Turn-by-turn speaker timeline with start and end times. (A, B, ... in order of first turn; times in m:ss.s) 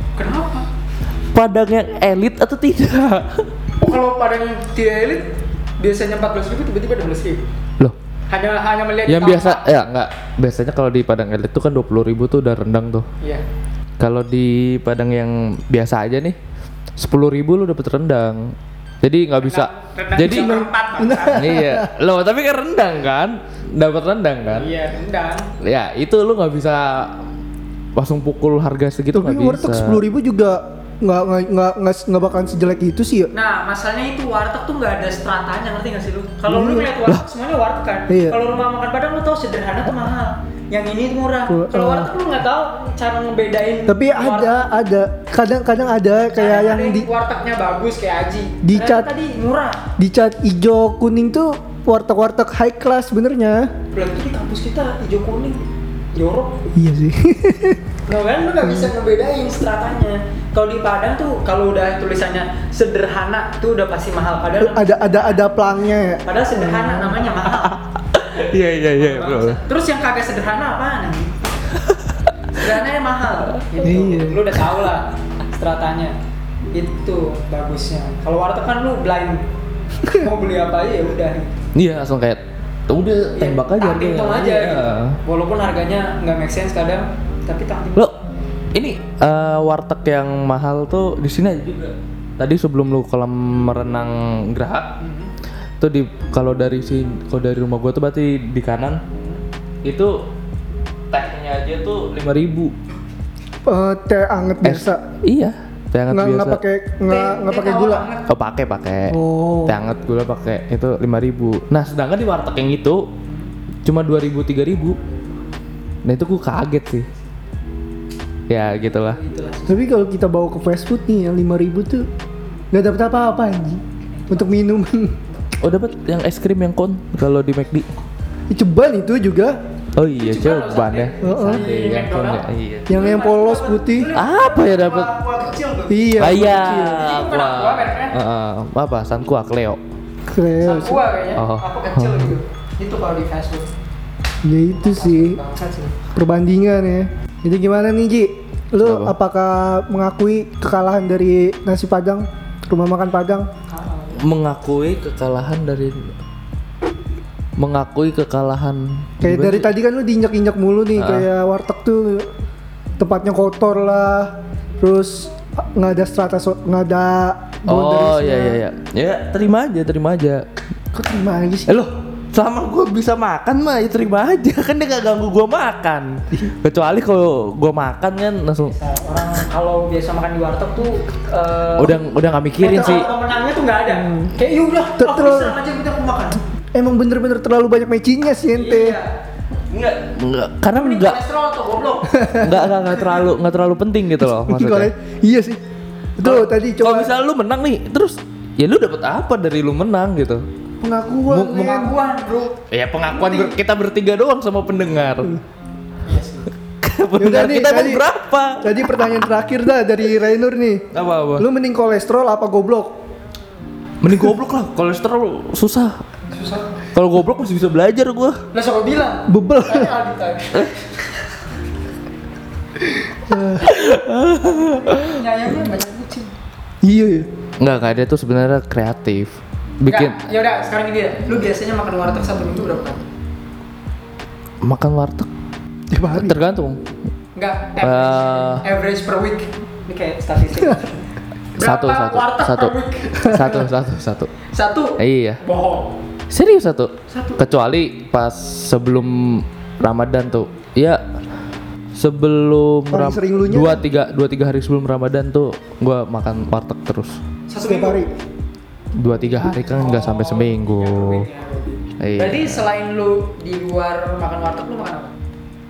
0:00.2-0:00.7 A
0:01.3-0:03.5 B
0:03.8-0:05.3 A
0:05.8-0:07.5 A
0:08.3-0:09.6 A
0:09.1-0:13.1 B
0:14.0-0:16.4 B
0:17.0-0:20.5 B
0:19.4-0:21.5 A
0:20.2-0:21.9 C
0:21.3-0:24.7 B
0:24.5-0:25.5 A
0:25.6-0:27.2 B
0:28.0-0:30.0 B
0:29.1-0:33.3 C
0:33.3-0:44.7 A
0:36.5-0:36.9 C
0:38.1-0:38.4 C
0:41.5-0:42.1 C
0:43.9-0:47.1 C
0:46.4-0:49.8 A
0:48.6-0:49.1 C
0:50.0-0:53.7 C
0:53.9-0:56.6 A
0:56.7-0:57.8 C
0:58.1-1:05.5 A
0:58.6-0:58.9 C
1:04.6-1:07.2 C
1:06.2-1:07.8 A
1:07.7-1:09.6 B
1:08.8-1:11.4 A
1:12.6-1:16.1 A
1:13.8-1:14.5 C
1:16.7-1:19.4 A
1:20.0-1:21.6 A
1:21.7-1:25.2 B
1:23.4-1:28.1 A
1:28.7-1:34.9 B
1:35.0-1:35.3 A
1:35.8-1:39.0 B
1:39.1-1:39.4 A
1:39.8-1:40.2 B
1:41.1-1:42.7 B
1:43.6-1:45.0 C
1:44.6-1:46.6 B
1:46.1-1:48.1 C
1:47.0-1:48.3 A
1:48.3-1:53.0 B
1:49.1-1:49.8 C
1:53.3-1:53.5 A
1:53.8-1:55.0 B
1:54.8-1:55.5 A
1:56.0-1:57.1 B
1:58.5-1:59.2 B
1:58.8-1:59.9 A
1:59.7-2:02.0 C
2:02.7-2:05.2 C
2:04.1-2:04.5 A
2:05.6-2:07.9 B
2:08.5-2:09.6 C
2:10.0-2:13.0 B
2:10.2-2:16.2 A
2:11.2-2:11.6 C
2:12.9-2:14.1 C
2:14.1-2:15.1 B
2:15.9-2:17.1 C
2:16.2-2:19.8 B
2:16.9-2:18.2 A
2:20.3-2:21.0 C
2:20.6-2:23.7 A
2:21.4-2:22.4 B
2:24.4-2:25.4 C
2:24.7-2:25.9 A
2:26.1-2:33.5 C
2:28.8-2:29.1 B
2:33.7-2:34.2 A
2:34.2-2:36.1 B
2:37.6-2:39.7 B
2:39.2-2:42.3 C
2:41.0-2:41.3 B
2:43.0-2:48.6 C
2:47.7-2:50.4 B
2:50.9-2:51.8 C
2:51.7-2:58.7 B
2:58.7-3:02.0 A
3:01.8-3:03.1 B
3:02.6-3:06.4 A
3:02.7-3:03.0 C
3:03.9-3:04.3 C
3:05.0-3:05.5 C
3:06.7-3:09.0 C
3:08.5-3:09.1 A
3:09.7-3:11.2 B
3:10.7-3:12.6 A
3:12.1-3:12.7 C
3:12.4-3:14.9 B
3:14.2-3:15.6 C
3:16.2-3:17.1 C
3:16.2-3:20.4 B
3:20.8-3:21.9 C
3:21.3-3:21.7 B
3:21.4-3:23.5 A
3:22.7-3:25.4 B
3:26.0-3:26.5 A
3:26.8-3:29.1 B
3:27.2-3:28.0 C
3:28.6-3:33.0 C
3:30.9-3:31.5 B
3:34.0-3:36.0 B
3:36.3-3:36.8 A
3:36.9-3:38.4 B
3:38.5-3:41.3 A
3:39.3-3:39.9 C
3:42.8-3:43.7 C
3:43.6-3:45.2 B
3:44.3-3:46.3 A
3:46.8-3:47.3 C
3:47.6-3:50.2 B
3:49.8-3:53.0 A
3:54.6-3:55.3 B
3:55.9-3:56.4 C
3:56.1-3:56.8 B
3:57.4-4:01.0 A
3:57.8-3:58.6 B
4:01.6-4:03.7 A
4:01.6-4:04.3 B
4:04.5-4:06.0 A
4:05.0-4:05.4 B
4:06.3-4:11.0 B
4:07.1-4:07.4 A
4:11.9-4:17.2 B
4:12.9-4:13.8 C
4:17.5-4:18.0 A
4:17.6-4:18.1 C
4:19.0-4:21.2 B
4:19.8-4:25.2 A
4:22.0-4:22.6 B